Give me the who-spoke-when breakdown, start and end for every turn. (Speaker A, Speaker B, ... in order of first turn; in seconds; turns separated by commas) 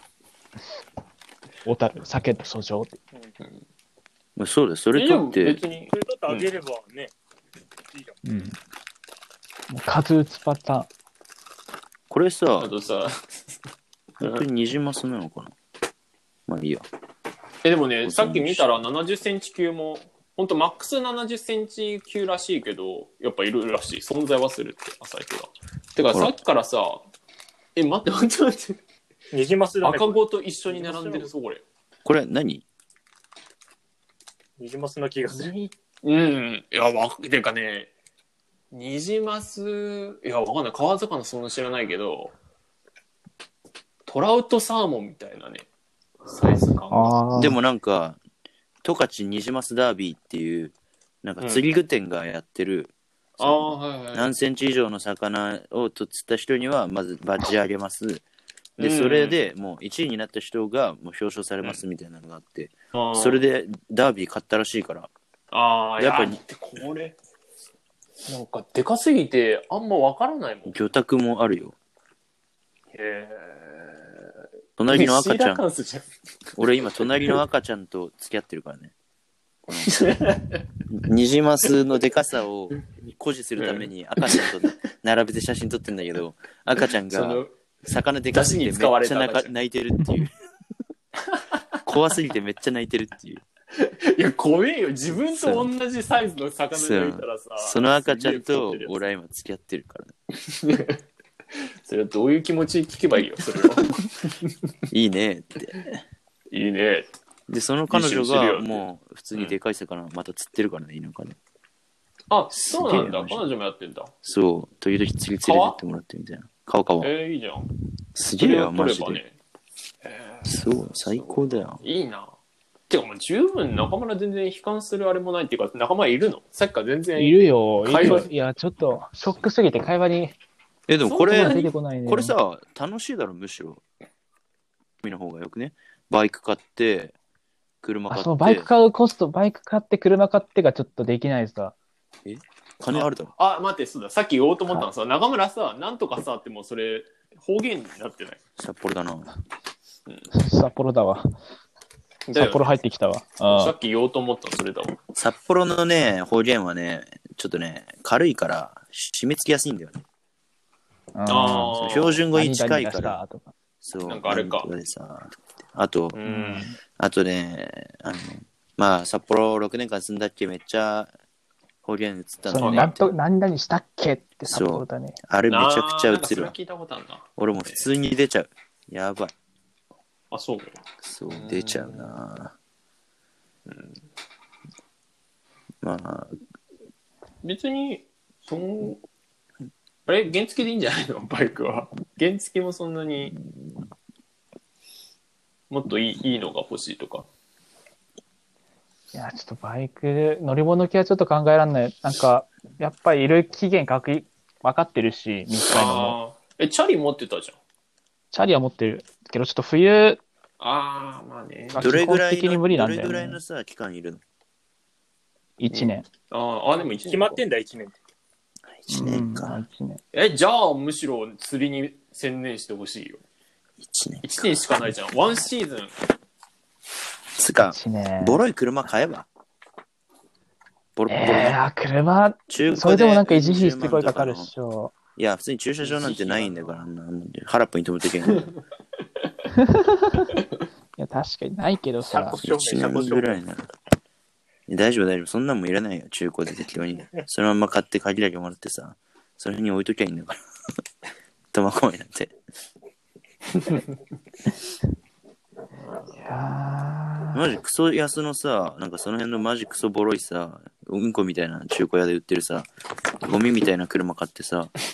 Speaker A: 1.6-3.0, Speaker B: 4.3-5.6, Speaker C: 4.9-6.5, Speaker D: 5.9-7.1, Speaker D: 7.9-8.2, Speaker A: 8.2-8.6, Speaker A: 9.7-10.9, Speaker B: 12.1-12.7, Speaker C: 12.6-13.6, Speaker B: 14.2-15.5, Speaker B: 16.5-16.8, Speaker C: 17.6-27.1, Speaker B: 18.0-18.7, Speaker C: 27.8-28.8, Speaker D: 29.3-31.3, Speaker C: 29.8-31.6, Speaker B: 32.0-32.6, Speaker D: 34.6-35.5, Speaker C: 35.3-37.9, Speaker C: 38.7-42.3, Speaker C: 44.0-45.6, Speaker C: 46.2-47.2, Speaker A: 46.9-47.6, Speaker B: 47.3-48.2, Speaker B: 48.8-58.2, Speaker C: 51.4-51.6, Speaker C: 53.4-54.3, Speaker C: 58.8-59.4, Speaker B: 58.8-65.1, Speaker C: 62.9-63.4, Speaker C: 65.5-67.2, Speaker B: 66.0-66.4, Speaker C: 68.2-70.8, Speaker B: 70.7-71.7, Speaker C: 72.9-74.3, Speaker B: 74.8-75.6, Speaker C: 74.9-76.0, Speaker B: 76.5-78.9, Speaker B: 79.7-79.9, Speaker C: 79.8-80.7, Speaker B: 80.9-90.3, Speaker C: 83.6-84.5, Speaker C: 87.0-87.5, Speaker C: 88.3-89.5, Speaker C: 91.3-91.5, Speaker B: 91.8-93.4, Speaker C: 93.7-99.0, Speaker B: 95.1-95.7, Speaker B: 96.7-100.1, Speaker C: 100.4-101.0, Speaker C: 101.6-104.5, Speaker B: 104.9-106.0, Speaker C: 106.5-107.1, Speaker B: 107.5-111.4, Speaker C: 107.9-109.6, Speaker C: 112.3-114.1, Speaker B: 112.5-113.4, Speaker B: 114.2-117.1, Speaker C: 115.4-115.8, Speaker C: 117.0-117.7, Speaker B: 118.1-119.2, Speaker C: 118.4-119.3, Speaker C: 120.0-122.3, Speaker B: 120.4-121.8, Speaker C: 122.9-128.3, Speaker A: 127.2-130.3, Speaker B: 130.9-133.8, Speaker C: 131.1-131.7, Speaker A: 131.3-132.3, Speaker B: 135.0-137.1, Speaker B: 137.8-138.7, Speaker A: 138.1-141.7, Speaker B: 142.2-143.3, Speaker C: 142.9-148.4, Speaker B: 148.6-149.3, Speaker A: 150.3-151.3, Speaker C: 152.3-152.7, Speaker A: 152.3-153.7, Speaker C: 153.5-155.0, Speaker B: 155.2-160.0, Speaker A: 161.1-161.8, Speaker C: 161.3-162.2, Speaker B: 161.8-163.2, Speaker A: 162.3-163.5, Speaker B: 163.8-166.2, Speaker C: 164.1-164.7, Speaker C: 166.1-166.7, Speaker A: 166.2-166.8, Speaker B: 167.0-171.1, Speaker B: 171.8-173.1, Speaker A: 172.4-175.2, Speaker C: 172.5-173.0, Speaker B: 174.4-176.5, Speaker C: 175.5-177.8, Speaker B: 177.4-179.3, Speaker C: 180.3-182.1, Speaker B: 181.0-182.5, Speaker C: 183.7-184.0, Speaker B: 185.8-186.4, Speaker C: 187.4-189.0, Speaker C: 190.1-193.3, Speaker C: 195.7-197.3, Speaker A: 199.1-206.2, Speaker C: 205.7-207.6, Speaker A: 208.3-210.2, Speaker C: 210.6-211.9, Speaker A: 211.7-213.4, Speaker B: 211.8-214.2, Speaker A: 215.6-216.1, Speaker C: 215.7-217.4, Speaker D: 216.8-218.0, Speaker B: 218.8-219.6, Speaker A: 218.9-220.0, Speaker C: 220.1-223.2, Speaker B: 223.8-224.5, Speaker C: 224.2-225.9, Speaker B: 227.3-229.3, Speaker A: 227.7-228.4, Speaker B: 230.9-231.6, Speaker A: 231.1-234.9, Speaker B: 232.5-234.5, Speaker B: 235.2-238.5, Speaker C: 235.8-236.8, Speaker A: 239.5-240.3, Speaker A: 241.0-242.4, Speaker D: 242.0-243.4, Speaker B: 242.4-243.7, Speaker B: 244.7-250.4, Speaker B: 251.5-252.3, Speaker A: 256.2-257.4, Speaker B: 257.3-262.7, Speaker B: 263.2-264.7